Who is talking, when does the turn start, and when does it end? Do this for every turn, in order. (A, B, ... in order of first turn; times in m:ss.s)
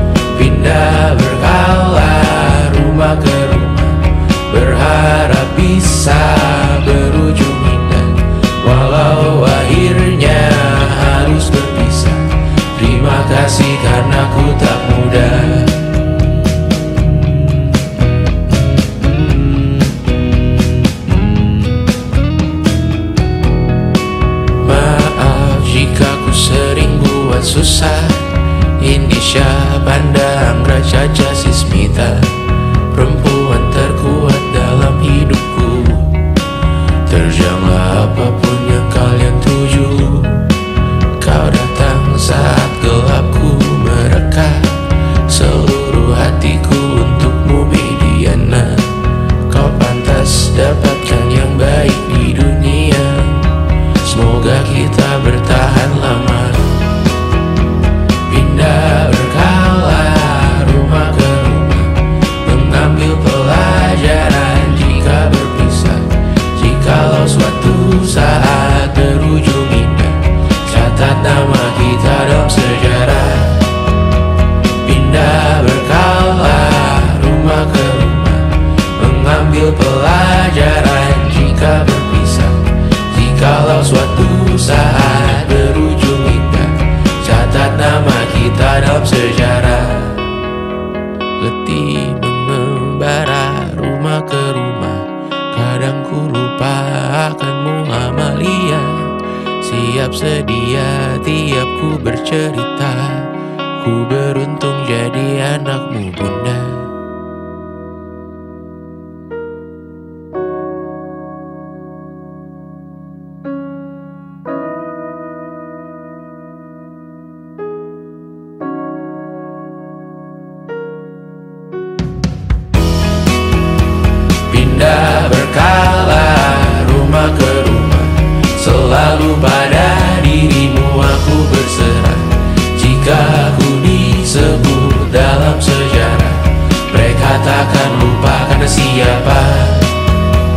0:00.3-0:16.2 A
0:18.5-0:20.2 A
0:21.1-0:21.4 A
0:24.6-0:32.4 A
0:32.9-0:36.3 A
0:37.1-0:40.5 A
0:41.2-0:44.8 A
0:45.3-0:48.9 A
0:49.5-0:56.9 A
0:58.3-1:13.8 A
1:14.8-1:30.3 A
1:31.4-1:39.1 A
1:39.6-1:46.9 A
2:04.5-2:20.0 A